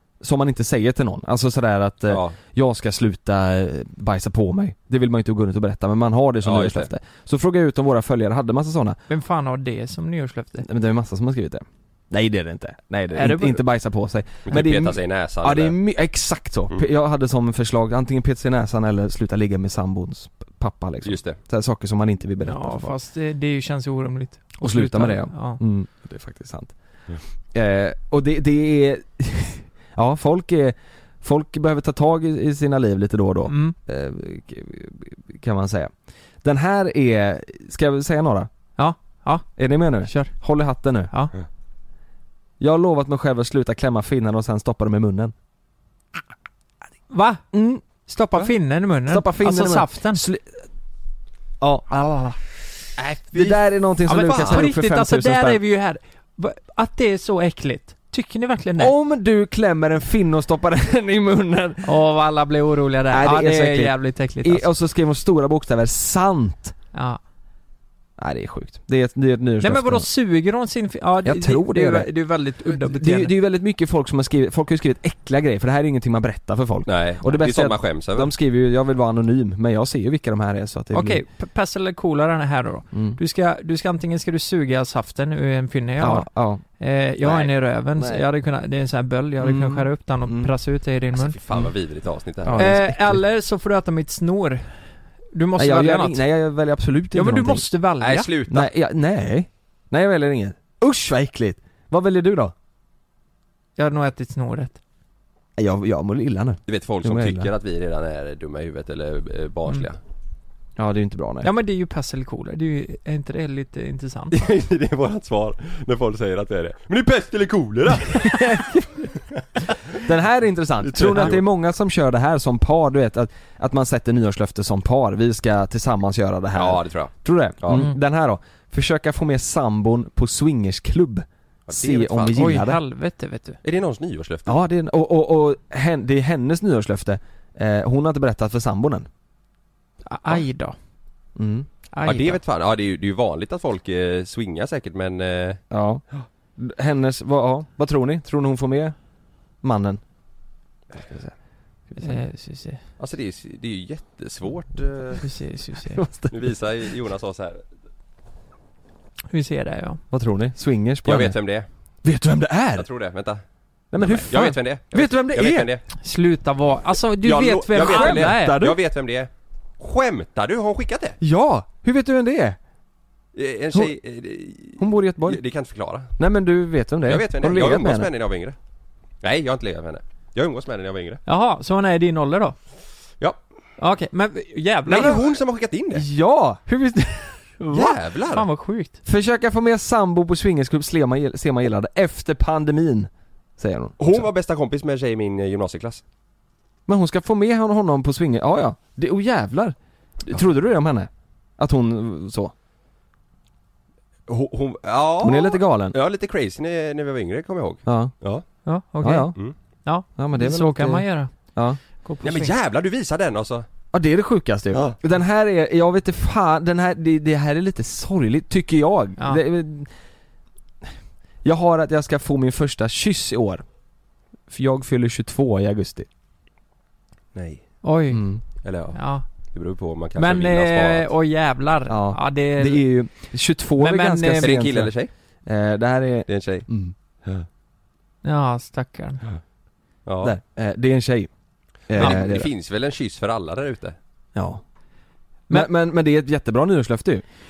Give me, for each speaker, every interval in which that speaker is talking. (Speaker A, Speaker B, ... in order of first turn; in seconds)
Speaker A: 0.2-9.0, 10.6-22.9, 24.6-26.7, 27.5-35.9, 36.4-38.5, 39.6-41.1, 42.6-45.3, 47.5-47.8, 49.1-50.6, 51.6-52.3, 53.3-55.6, 58.8-62.0, 63.1-66.7, 68.2-70.1, 71.2-72.1, 72.7-81.2, 82.9-83.2, 86.0-86.6, 88.0-88.2, 89.4-90.5, 92.4-93.2, 95.6-97.7, 98.5-102.5, 105.6-107.5, 110.8-111.5, 118.2-119.0, 120.0-132.8, 134.4-139.1, 141.3-141.7, 145.7-146.0, 146.6-148.9, 149.6-150.0, 150.9-151.3, 151.9-152.2, 155.9-156.6, 160.1-161.4, 162.0-162.9, 163.9-165.7, 167.7-168.8, 171.2-172.6, 174.8-175.4, 176.2-178.1, 185.9-187.6, 189.0-194.2, 196.9-202.5, 205.2-205.9, 207.8-208.2, 209.0-209.3, 210.1-211.8, 213.9-219.9, 221.4-223.6, 224.5-226.1, 228.1-228.4, 231.9-234.9, 235.4-236.9, 240.2-241.3, 241.8-242.5, 244.3-244.6, 245.5-247.2
Speaker B: 2.1-2.3, 6.4-6.9, 14.4-15.8, 21.0-21.4, 53.0-54.6, 76.8-78.3, 87.2-87.5, 91.1-92.7, 98.0-98.7, 106.7-110.0, 114.3-118.6, 120.8-121.4, 126.5-127.9, 131.7-132.5, 133.6-134.6, 142.0-145.6, 153.0-155.2, 156.3-157.6, 161.0-161.7, 162.8-163.4, 164.2-165.8, 167.2-171.2, 173.3-176.1, 177.1-178.6, 179.2-181.2, 184.9-186.1, 187.7-188.4, 194.0-196.0, 204.3-208.4, 212.2-213.7, 214.7-215.0, 227.3-227.7, 228.6-229.0, 229.5-231.1, 234.4-235.1, 236.3-236.7, 240.1-240.3, 241.9-243.9
Speaker C: 9.1-10.7, 13.1-13.6, 22.4-25.6, 33.5-33.8, 38.8-39.5, 40.0-40.3, 47.1-50.2, 51.9-52.3, 54.0-58.9, 61.8-64.7, 66.9-67.2, 69.6-73.3, 80.9-91.3, 92.6-96.2, 97.1-98.3, 103.8-104.8, 111.4-114.3, 132.3-133.6, 140.1-140.8, 141.9-142.4, 152.0-152.8, 155.2-156.0, 159.3-160.0, 166.0-168.6, 181.2-182.6, 183.8-185.2, 187.6-189.0, 208.7-211.3, 212.0-212.5, 227.8-228.2, 228.9-229.2, 230.2-232.8, 233.8-234.5, 238.2-239.2